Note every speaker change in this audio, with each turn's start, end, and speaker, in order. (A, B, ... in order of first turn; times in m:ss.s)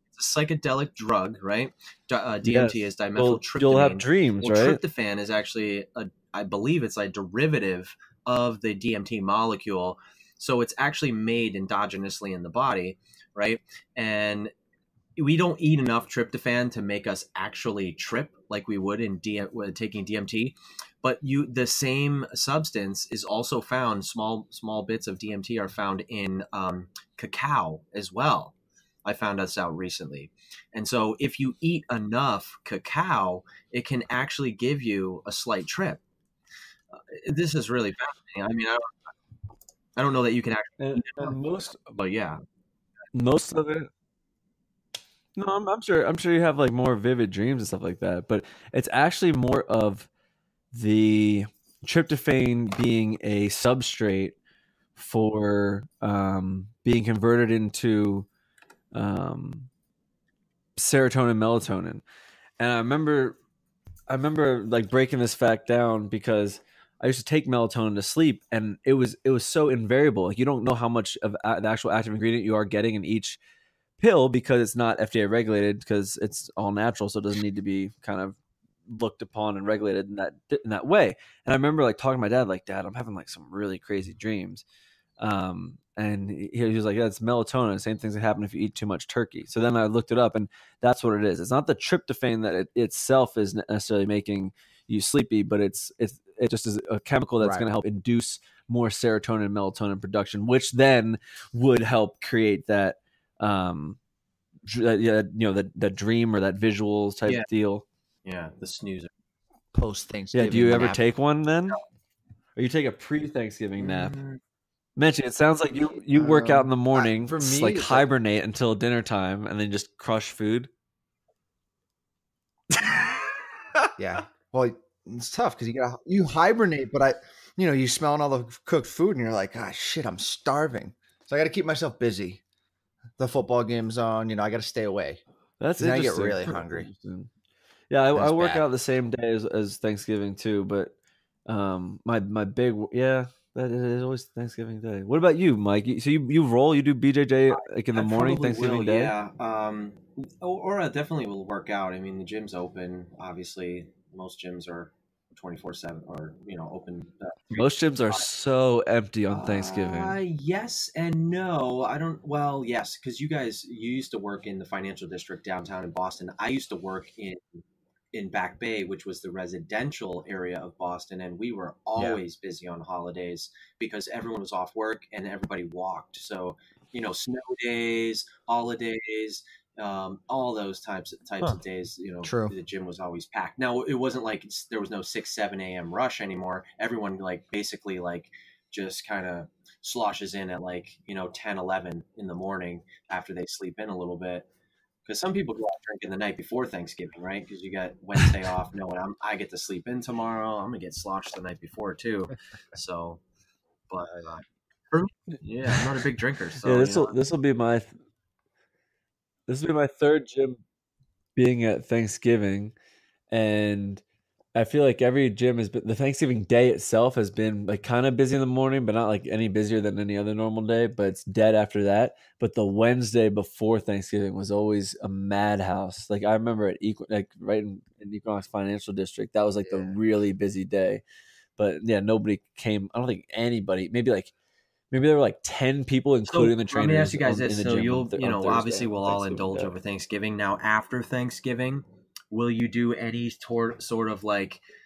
0:00.1-0:14.5 A
0:02.4-0:04.8 B
0:15.2-0:36.0 A
0:37.1-0:38.9 A
0:40.0-0:42.4 A
0:40.8-0:41.8 B
0:43.1-0:43.9 B
0:45.4-0:50.1 B
0:50.7-0:54.4 B
0:55.0-0:58.3 B
0:58.9-0:59.7 B
1:00.8-1:02.0 B
1:02.6-1:03.4 B
1:04.1-1:13.4 B
1:14.0-1:24.6 B
1:25.2-1:44.0 B
1:37.4-1:37.7 C
1:44.7-1:47.8 B
1:48.2-1:49.1 A
1:49.7-1:51.0 C
1:50.3-1:51.8 B
1:52.6-1:54.2 B
1:53.8-1:54.4 A
1:55.0-2:00.7 B
1:56.2-1:58.1 C
2:02.7-2:03.9 B
2:04.0-2:12.4 C
2:13.2-2:15.2 C
2:15.6-2:17.3 B
2:15.8-2:16.9 C
2:17.9-2:21.0 B
2:18.2-2:18.6 C
2:21.5-2:29.1 B
2:27.6-2:38.2 A
2:37.5-2:40.2 B
2:39.3-2:47.6 A
2:48.1-3:14.5 A
2:52.0-2:52.2 C
3:02.2-3:02.5 C
3:15.1-3:23.2 A
3:23.9-3:27.2 A
3:26.6-3:27.9 B
3:29.5-3:30.6 B
3:31.4-3:32.7 B
3:33.3-3:34.0 B
3:34.6-3:51.0 B
3:51.6-3:54.3 B
3:54.9-3:59.7 B
3:56.3-4:04.6 A